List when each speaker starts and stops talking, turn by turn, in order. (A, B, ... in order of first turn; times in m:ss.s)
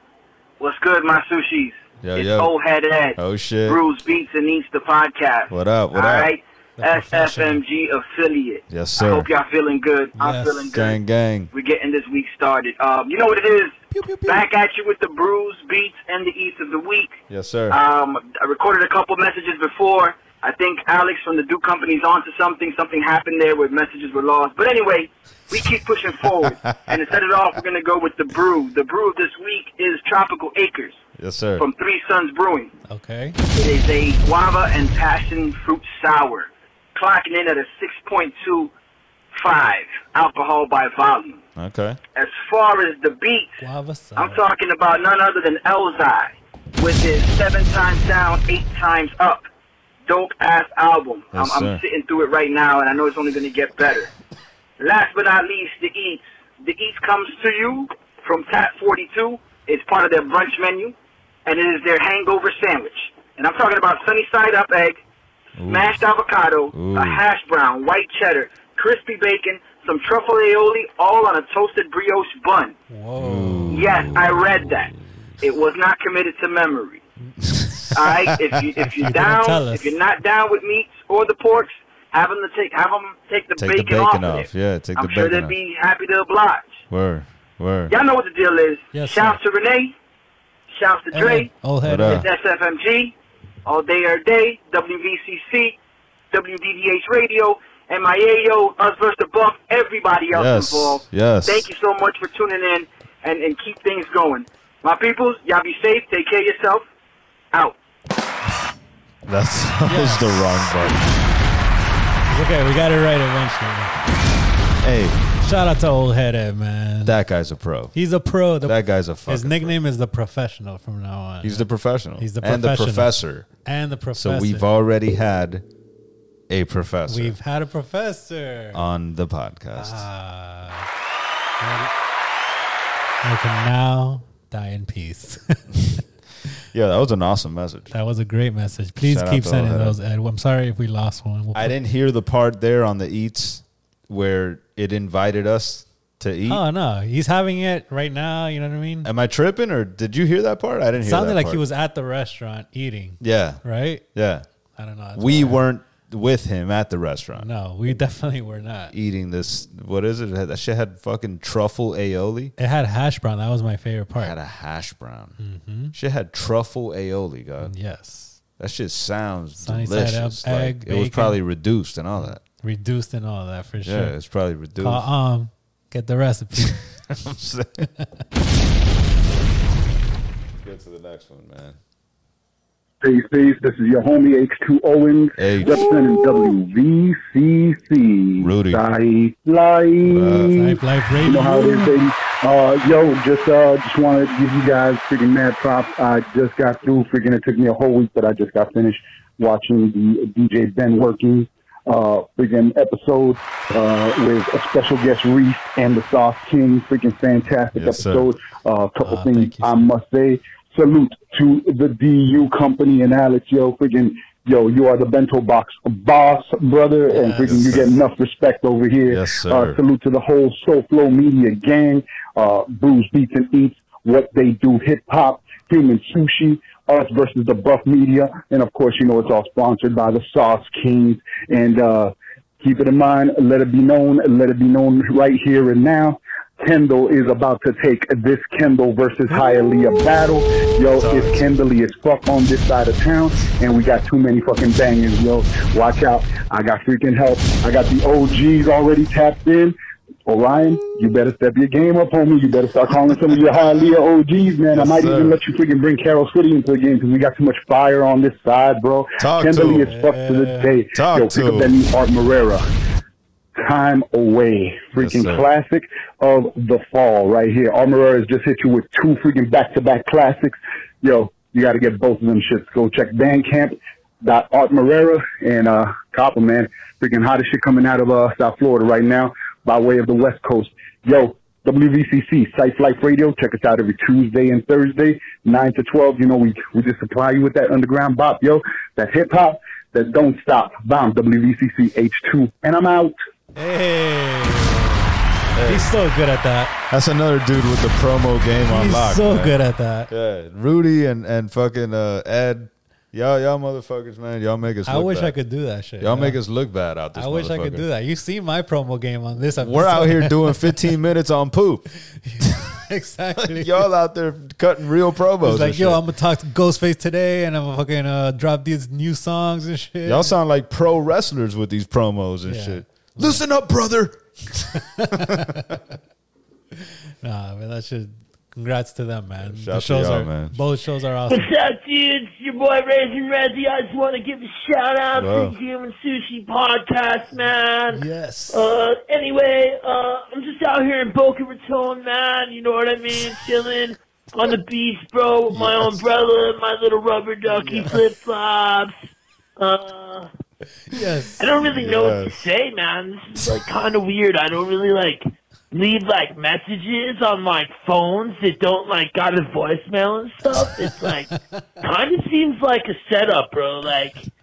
0:00.6-0:11.0 A
0:02.0-0:02.5 B
0:03.2-0:03.8 B
0:05.5-0:06.3 B
0:06.8-0:07.6 C
0:08.7-0:09.3 B
0:10.2-0:10.7 C
0:10.7-0:11.5 B
0:11.5-0:17.1 A
0:13.9-0:14.5 C
0:17.3-0:17.8 B
0:17.7-0:31.0 A
0:31.2-0:31.7 B
0:31.6-0:32.7 A
0:32.9-0:33.4 C
0:33.5-0:38.7 A
0:39.3-0:41.4 A
0:41.6-0:42.0 B
0:42.2-0:43.5 A
0:43.6-0:44.4 C
0:44.2-0:49.4 A
0:50.1-0:54.1 A
0:51.3-0:51.8 B
0:54.8-1:05.0 A
1:05.6-1:05.9 B
1:05.7-1:12.8 A
1:06.7-1:07.2 B
1:12.9-1:13.9 C
1:13.2-1:14.9 B
1:13.7-1:17.0 A
1:17.4-1:18.6 B
1:17.9-1:26.8 A
1:18.8-1:19.9 C
1:23.6-1:25.5 B
1:26.9-1:28.0 B
1:27.9-1:30.0 A
1:28.9-1:29.4 C
1:30.7-1:33.2 A
1:31.1-1:32.3 C
1:31.8-1:32.3 B
1:33.7-1:35.8 A
1:36.3-1:46.9 A
1:40.3-1:41.7 B
1:47.5-1:47.8 A
1:49.3-1:51.2 B
1:49.9-1:50.9 C
1:52.3-1:54.0 C
1:54.8-1:55.2 B
1:55.4-1:57.2 C
1:57.0-1:58.0 B
1:57.9-2:04.7 C
1:58.6-1:59.8 B
2:01.4-2:03.5 B
2:04.1-2:05.7 B
2:06.5-2:07.4 B
2:07.1-2:08.8 C
2:08.7-2:10.1 B
2:09.7-2:10.9 C
2:11.6-2:11.9 C
2:13.2-2:16.0 C
2:16.7-2:17.9 B
2:17.9-2:21.8 C
2:19.0-2:20.0 B
2:21.5-2:26.6 B
2:26.5-2:29.1 C
2:29.0-2:31.6 B
2:31.0-2:34.0 C
2:33.2-2:33.6 B
2:34.1-2:34.5 B
2:34.8-2:35.6 C
2:35.2-2:37.5 B
2:37.4-2:38.9 C
2:38.9-2:42.5 B
2:42.6-2:44.4 C
2:44.2-2:45.4 B
2:45.4-2:46.0 C
2:45.9-2:47.7 B
2:47.6-2:48.4 C
2:48.6-2:52.4 B
2:49.6-2:51.4 C
2:52.2-2:54.2 C
2:53.8-2:55.1 B
2:54.8-2:56.8 C
2:56.6-2:57.9 B
3:00.6-3:01.8 B
3:03.0-4:09.8 D
3:05.4-3:05.8 B
3:08.4-3:08.8 B
3:10.1-3:10.6 B
3:10.5-3:12.0 C
3:27.8-3:28.3 B
3:29.0-3:29.8 C
3:37.1-3:37.9 C
3:39.1-3:39.8 B
4:01.0-4:01.5 B
4:10.3-4:22.6 D
4:14.7-4:15.4 B
4:19.2-4:19.9 B
4:19.8-4:20.8 C
4:20.9-4:21.7 B
4:23.6-4:53.2 D
4:25.0-4:25.4 B
4:53.6-4:56.8 C
4:55.5-4:55.9 B
4:56.9-4:59.6 B
4:58.7-5:00.1 C
5:00.1-5:05.4 B
5:04.8-5:06.4 C
5:06.0-5:07.9 B
5:07.1-5:10.9 C
5:09.6-5:11.9 B
5:12.1-5:13.9 C
5:13.4-5:16.0 B
5:15.4-5:20.3 C
5:20.0-5:25.6 B
5:22.5-5:23.4 C
5:24.8-5:25.7 C
5:26.7-5:31.5 C
5:29.4-5:30.6 B
5:31.3-5:49.0 E
5:35.1-5:35.5 B
5:37.9-5:38.7 C
5:49.6-5:50.3 E
5:50.9-5:51.4 C
5:51.4-6:04.3 E
5:51.6-5:52.4 B
6:00.5-6:01.4 C